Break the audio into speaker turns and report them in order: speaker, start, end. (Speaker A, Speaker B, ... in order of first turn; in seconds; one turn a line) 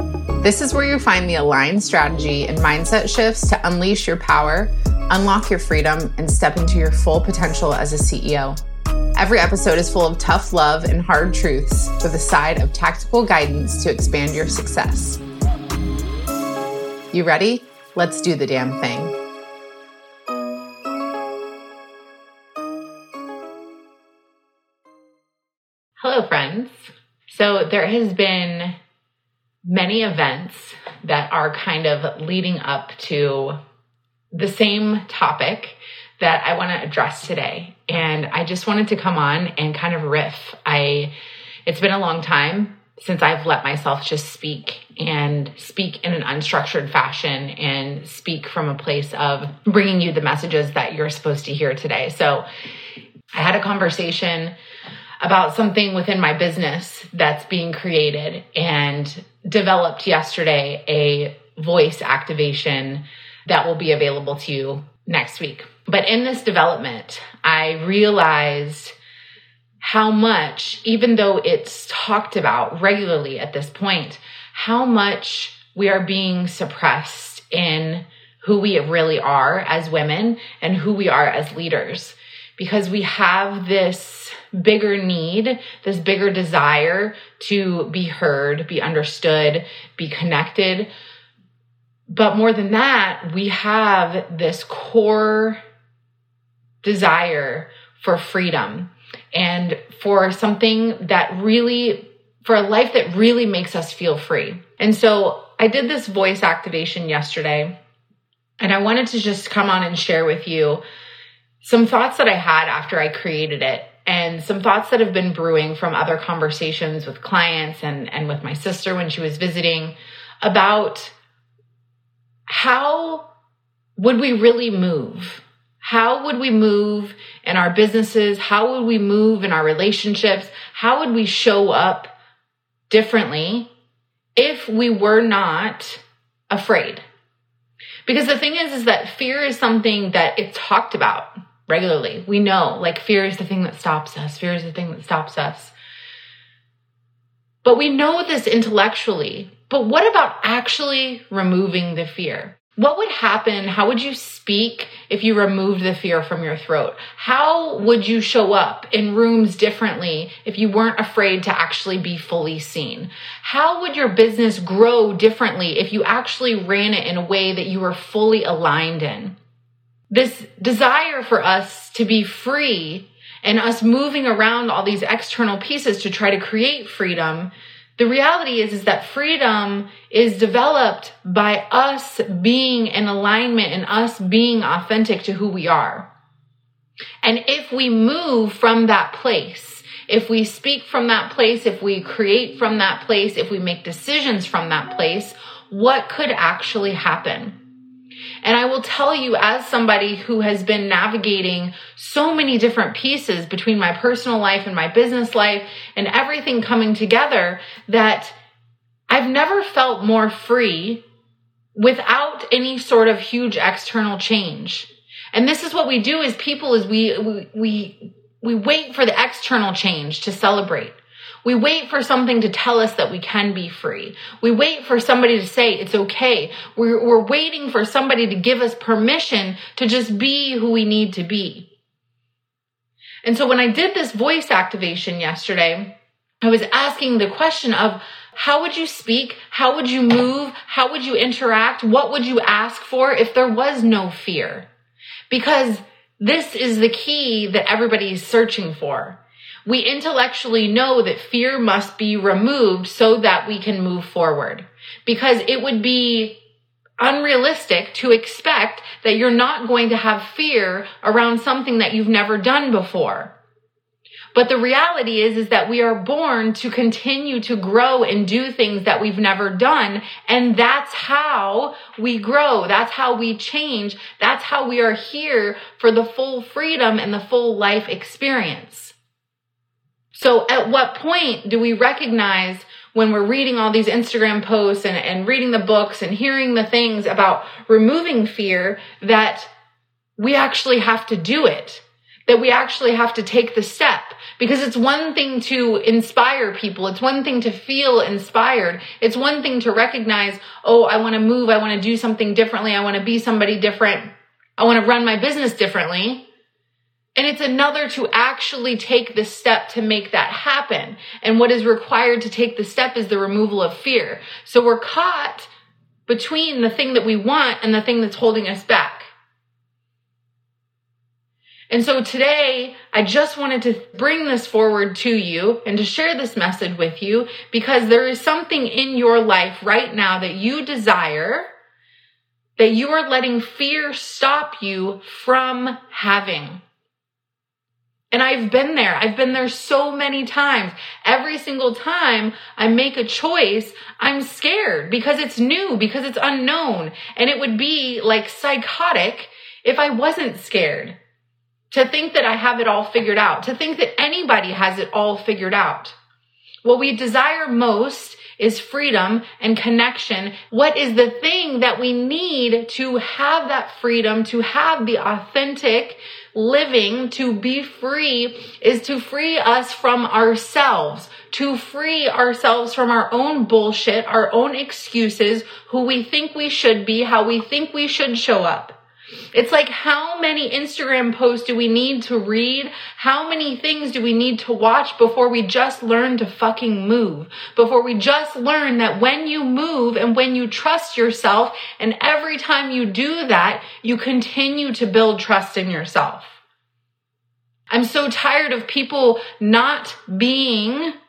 Speaker A: 0.4-8.6
Speaker A: 9.2-15.2
Speaker A: 17.1-19.1
Speaker A: 26.0-28.8
Speaker A: 29.6-33.6
Speaker A: 34.3-41.1
Speaker A: 41.7-52.5
Speaker A: 53.3-54.5
Speaker A: 55.2-69.0
Speaker A: 69.8-90.9
Speaker A: 92.1-95.6
Speaker A: 96.8-107.7
Speaker A: 108.6-110.8
Speaker A: 111.6-121.2
Speaker A: 122.5-123.3
Speaker A: 124.0-132.1
Speaker A: 132.9-133.7
Speaker A: 134.4-137.0
Speaker A: 138.1-145.7
Speaker A: 147.6-169.4
Speaker A: 170.1-186.1
Speaker A: 187.2-197.6
Speaker A: 198.4-208.4
Speaker A: 209.1-211.0
Speaker A: 211.8-231.7
Speaker A: 233.2-244.7
Speaker A: 245.3-256.4
Speaker A: 257.0-263.3
Speaker A: 264.3-278.9
Speaker A: 280.1-289.5
Speaker A: 290.2-306.3
Speaker A: 307.2-315.5
Speaker A: 316.1-319.1
Speaker A: 321.7-331.5
Speaker A: 332.6-336.6
Speaker A: 338.1-351.0
Speaker A: 351.7-356.0
Speaker A: 356.6-378.8
Speaker A: 379.3-396.4
Speaker A: 397.7-400.9